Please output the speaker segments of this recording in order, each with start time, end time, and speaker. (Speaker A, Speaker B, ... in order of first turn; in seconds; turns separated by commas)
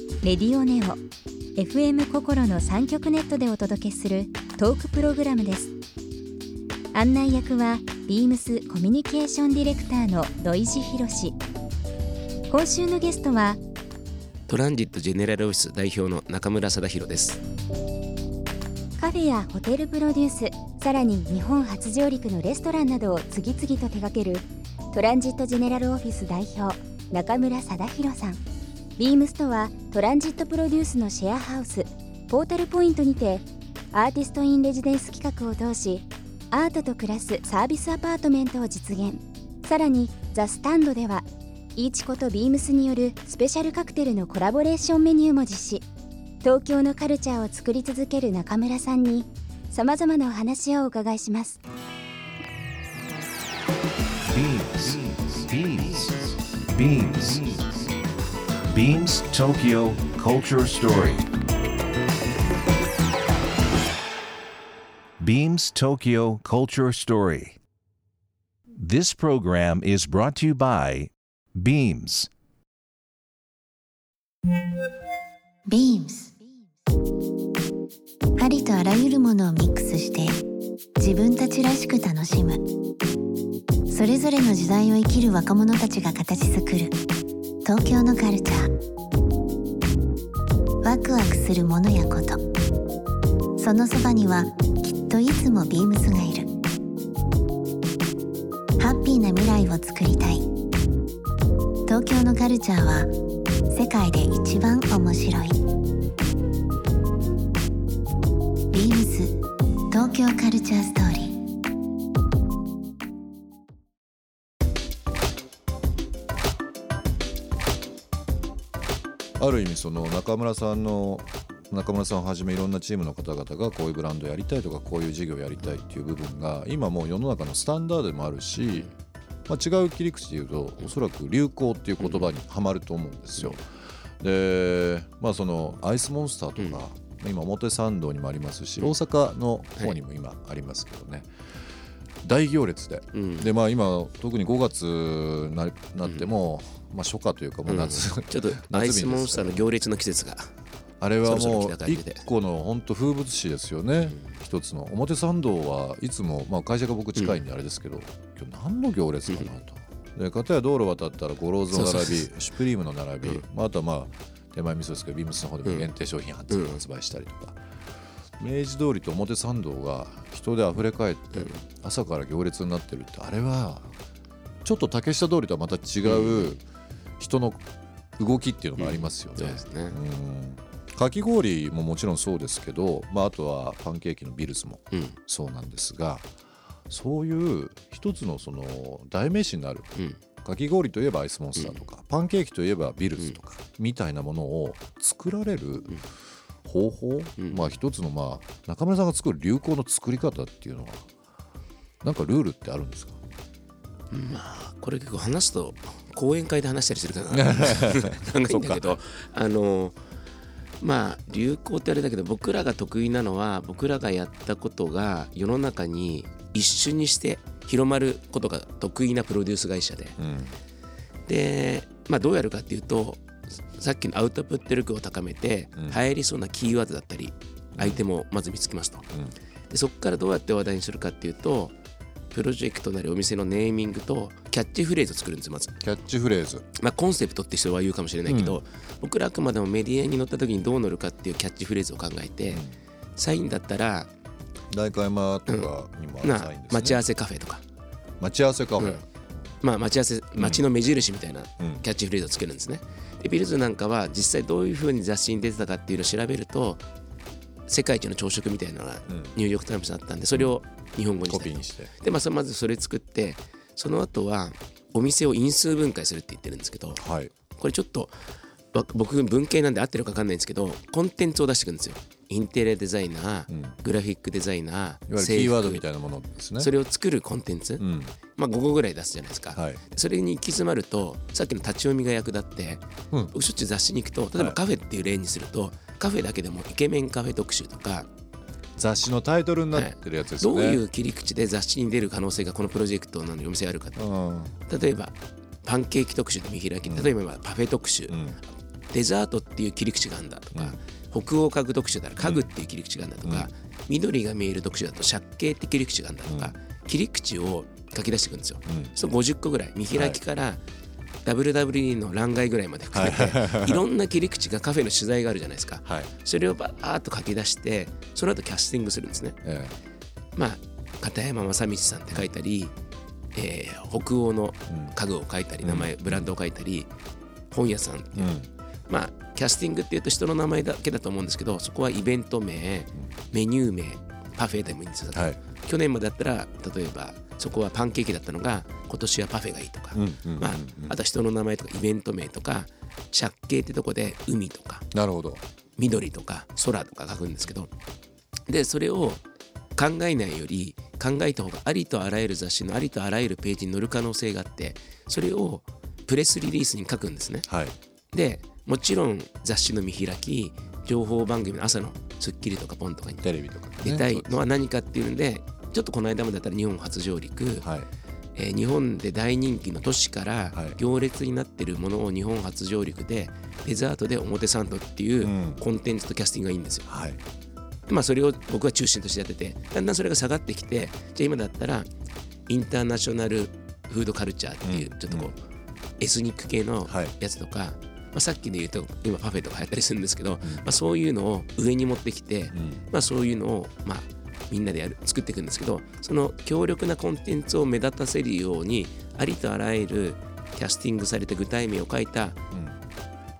Speaker A: 0.2-1.0, Speaker A: 1.6-5.7, Speaker A: 6.9-11.3, Speaker A: 12.5-13.6, Speaker B: 14.5-17.4, Speaker A: 19.0-28.4, Speaker A: 29.0-45.8, Speaker A: 46.4-51.6, Speaker C: 54.3-57.9, Speaker C: 58.7-61.3, Speaker C: 65.2-67.5, Speaker C: 68.8-72.3, Speaker D: 75.7-76.4, Speaker D: 78.4-80.4, Speaker D: 81.0-82.6, Speaker D: 83.9-87.0, Speaker D: 87.6-88.7, Speaker D: 90.8-92.4, Speaker D: 93.6-96.5, Speaker D: 98.8-100.5, Speaker D: 101.9-103.1, Speaker D: 103.7-105.6, Speaker D: 108.7-109.4, Speaker D: 109.9-111.4, Speaker E: 119.4-128.9, Speaker E: 129.5-133.7, Speaker B: 132.0-132.3, Speaker E: 134.2-141.3, Speaker E: 142.2-149.7, Speaker B: 143.1-143.5, Speaker B: 147.7-150.5, Speaker E: 151.0-167.6, Speaker B: 151.2-152.2, Speaker B: 157.1-157.4, Speaker B: 161.7-162.3, Speaker B: 165.6-165.9, Speaker B: 166.5-166.8, Speaker E: 168.4-173.9, Speaker B: 171.3-171.6, Speaker E: 174.6-176.6, Speaker B: 176.0-176.6, Speaker E: 177.2-177.6, Speaker E: 178.2-186.3, Speaker B: 178.8-180.0, Speaker B: 184.9-185.2, Speaker E: 186.9-196.0, Speaker B: 189.9-190.2, Speaker B: 191.5-191.8, Speaker E: 196.6-201.1, Speaker B: 197.4-197.7, Speaker E: 202.0-203.2, Speaker B: 204.1-210.0, Speaker E: 207.3-209.0, Speaker B: 210.8-220.2, Speaker E: 220.2-220.6, Speaker B: 221.3-229.1, Speaker E: 227.8-228.0, Speaker B: 229.7-231.7, Speaker B: 232.3-235.8, Speaker E: 235.8-236.7, Speaker B: 236.8-242.6, Speaker E: 238.2-238.6, Speaker E: 242.5-242.8, Speaker B: 243.2-244.1, Speaker E: 244.7-247.1, Speaker B: 246.2-247.6, Speaker E: 248.2-249.0, Speaker B: 248.8-249.0, Speaker B: 249.6-256.8, Speaker E: 250.4-250.6, Speaker E: 251.6-251.8, Speaker B: 257.7-267.0, Speaker E: 259.1-259.3, Speaker E: 260.3-260.6, Speaker E: 261.2-261.9, Speaker E: 267.0-267.3, Speaker B: 267.6-268.1, Speaker B: 268.7-275.9, Speaker E: 273.5-273.8, Speaker E: 275.1-276.7, Speaker B: 276.6-288.1, Speaker E: 277.8-278.1, Speaker E: 279.5-279.8, Speaker E: 288.8-290.8, Speaker B: 289.7-294.0, Speaker E: 293.9-294.6, Speaker B: 294.7-298.2, Speaker E: 296.9-297.1, Speaker E: 298.1-298.4, Speaker B: 298.9-310.6, Speaker E: 302.2-302.5, Speaker E: 303.2-303.5, Speaker E: 306.3-306.5, Speaker E: 308.6-308.9, Speaker E: 309.9-310.2, Speaker B: 311.2-319.4, Speaker E: 312.9-313.8, Speaker E: 315.8-316.1, Speaker E: 319.4-319.8, Speaker B: 320.3-322.7, Speaker B: 323.3-326.9, Speaker E: 324.7-324.9, Speaker E: 325.6-326.3, Speaker B: 327.5-328.3, Speaker E: 328.1-328.5, Speaker B: 328.9-344.9, Speaker E: 335.1-335.4, Speaker E: 339.9-340.9, Speaker E: 344.9-345.4, Speaker B: 345.8-347.7, Speaker B: 348.5-349.2, Speaker B: 349.8-357.5, Speaker E: 357.5-357.7, Speaker B: 358.1-367.7, Speaker E: 363.2-364.3, Speaker E: 367.6-367.9, Speaker B: 368.3-376.9, Speaker E: 375.2-375.6, Speaker E: 376.9-377.2, Speaker B: 377.9-381.9, Speaker B: 382.5-385.4, Speaker E: 384.6-385.3, Speaker B: 386.0-402.4, Speaker E: 386.9-387.1, Speaker E: 390.4-390.7, Speaker E: 392.5-392.8, Speaker E: 402.5-402.8